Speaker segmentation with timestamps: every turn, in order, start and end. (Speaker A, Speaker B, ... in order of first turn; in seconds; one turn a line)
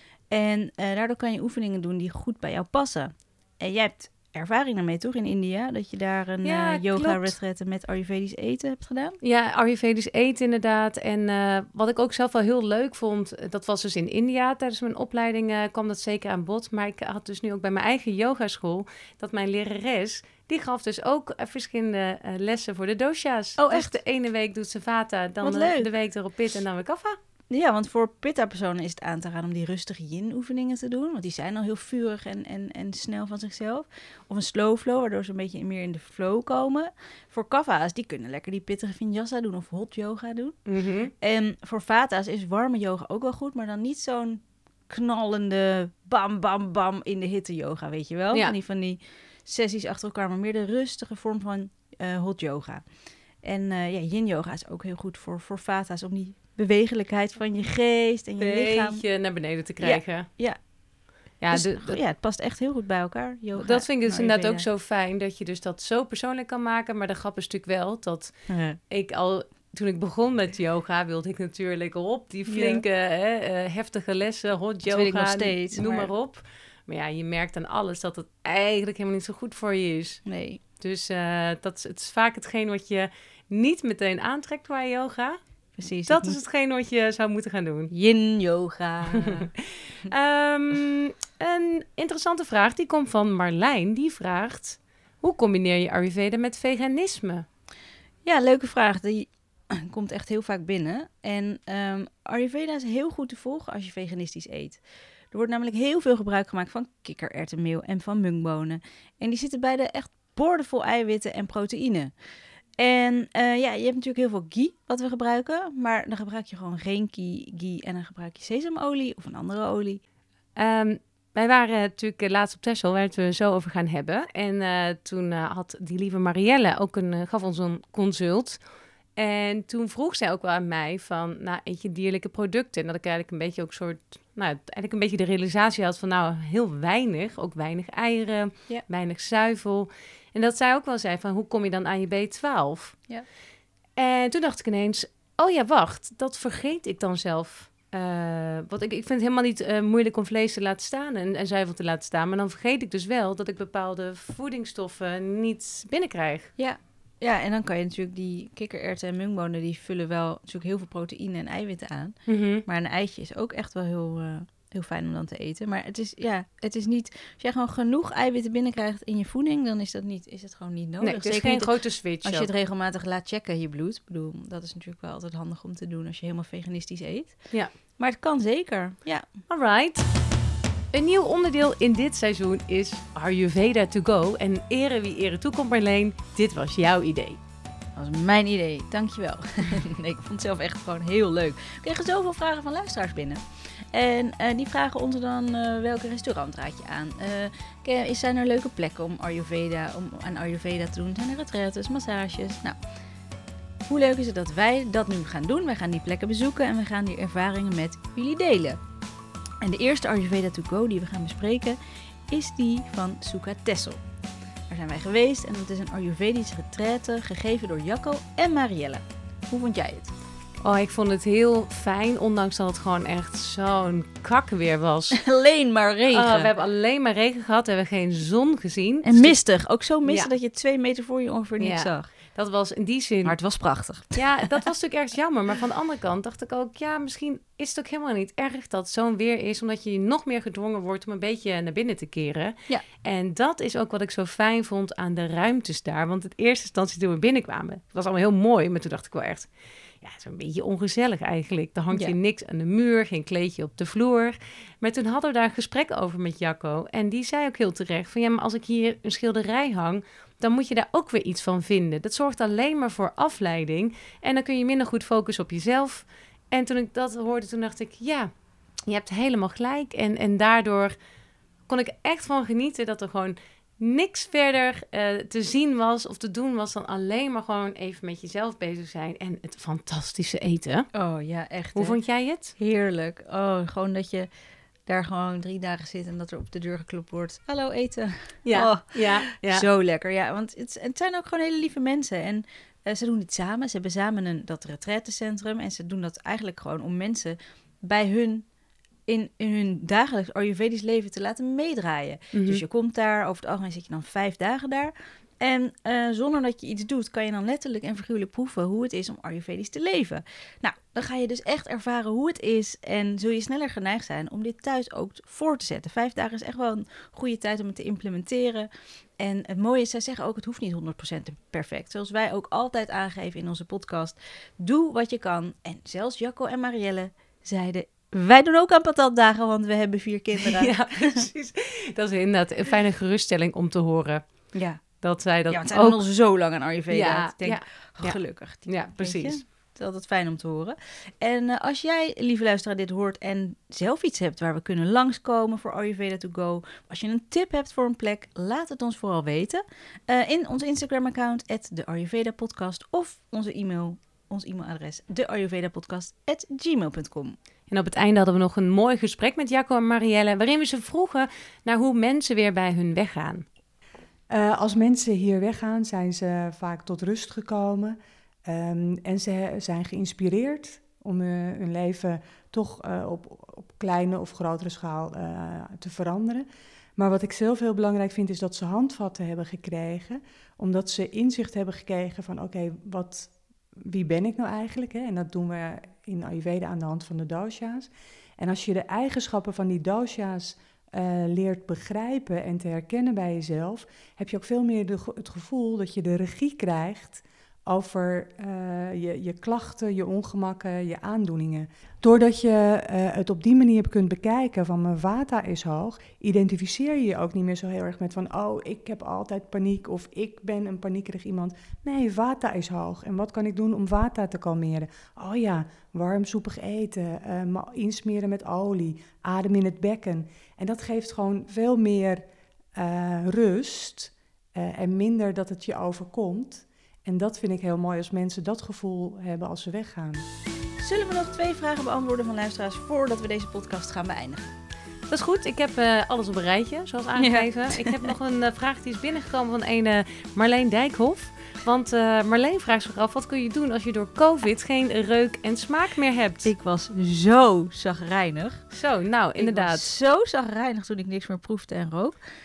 Speaker A: 0.3-9.2
Speaker B: 6.4-7.3
Speaker B: 9.2-27.2
Speaker A: 23.6-23.9
Speaker A: 25.4-25.9
Speaker A: 27.5-40.6
Speaker B: 40.6-41.1
Speaker A: 41.2-52.8
Speaker A: 53.4-59.0
Speaker B: 58.4-60.3
Speaker A: 59.8-60.6
Speaker A: 61.4-64.7
Speaker B: 61.4-62.0
Speaker B: 63.5-80.2
Speaker A: 68.5-68.8
Speaker A: 72.5-72.8
Speaker A: 74.8-76.1
Speaker A: 80.2-80.6
Speaker B: 80.8-85.4
Speaker A: 85.8-86.4
Speaker B: 86.1-87.9
Speaker A: 87.9-89.5
Speaker B: 89.2-97.4
Speaker A: 98.2-104.8
Speaker A: 105.3-112.1
Speaker A: 112.8-120.0
Speaker B: 120.5-128.6
Speaker B: 129.2-143.0
Speaker B: 144.0-156.5
Speaker A: 156.6-179.3
Speaker B: 162.3-162.6
Speaker B: 171.0-172.5
Speaker B: 179.5-180.1
Speaker B: 180.9-187.4
Speaker A: 187.9-193.4
Speaker A: 193.9-202.8
Speaker A: 203.9-208.8
Speaker A: 209.6-211.8
Speaker A: 212.3-214.0
Speaker A: 214.7-220.1
Speaker B: 220.6-225.2
Speaker A: 225.1-226.5
Speaker B: 226.1-229.4
Speaker A: 229.0-232.1
Speaker B: 230.0-230.3
Speaker B: 231.6-233.4
Speaker A: 233.2-234.3
Speaker B: 234.1-249.5
Speaker B: 250.0-268.3
Speaker A: 251.9-252.2
Speaker B: 268.9-270.9
Speaker B: 271.7-280.9
Speaker A: 280.9-282.0
Speaker B: 281.8-282.5
Speaker A: 282.6-284.3
Speaker A: 284.9-298.5
Speaker B: 288.4-289.6
Speaker A: 299.1-331.2
Speaker B: 302.3-302.6
Speaker B: 330.4-336.1
Speaker A: 334.5-334.8
Speaker A: 335.5-357.4
Speaker B: 336.9-339.4
Speaker B: 357.7-363.4
Speaker C: 364.3-430.2
Speaker A: 430.8-434.5
Speaker B: 435.1-446.5
Speaker A: 437.1-438.1
Speaker A: 446.4-448.6
Speaker B: 448.7-449.9
Speaker A: 449.4-452.1